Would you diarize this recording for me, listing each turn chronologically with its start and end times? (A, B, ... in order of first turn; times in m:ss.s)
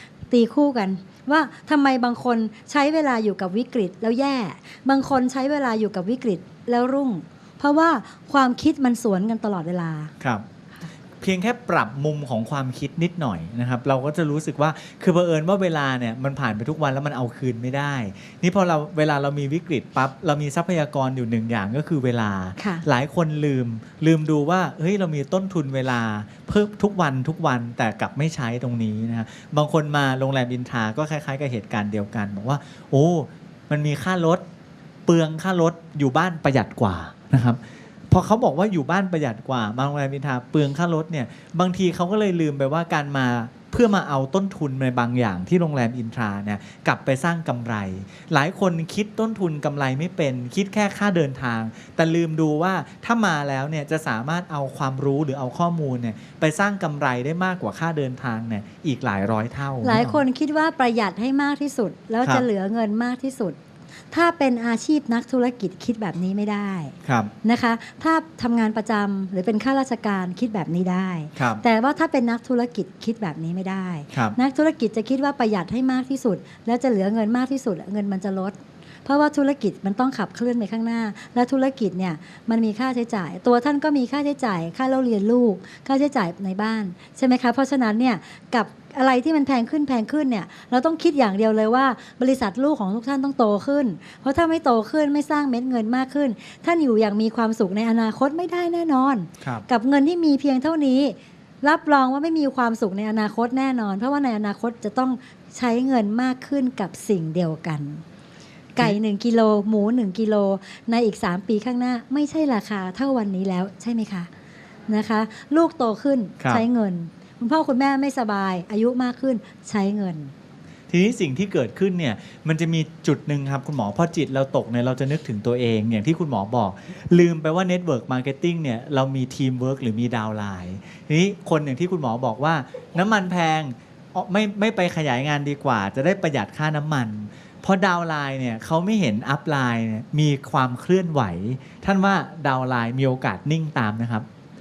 0:00.3-0:10.1 A
0:10.2-0:10.4 B
0:11.2-0:34.4 B
0:22.6-0:22.8 A
0:35.1-0:37.6 B
0:38.1-1:00.2 B
0:59.8-1:03.6 A
1:04.1-1:48.0 A
1:07.1-1:07.3 B
1:11.4-1:11.6 B
1:48.8-1:54.3 A
1:54.9-2:00.3 A
1:56.4-1:56.6 B
2:00.9-2:24.3 B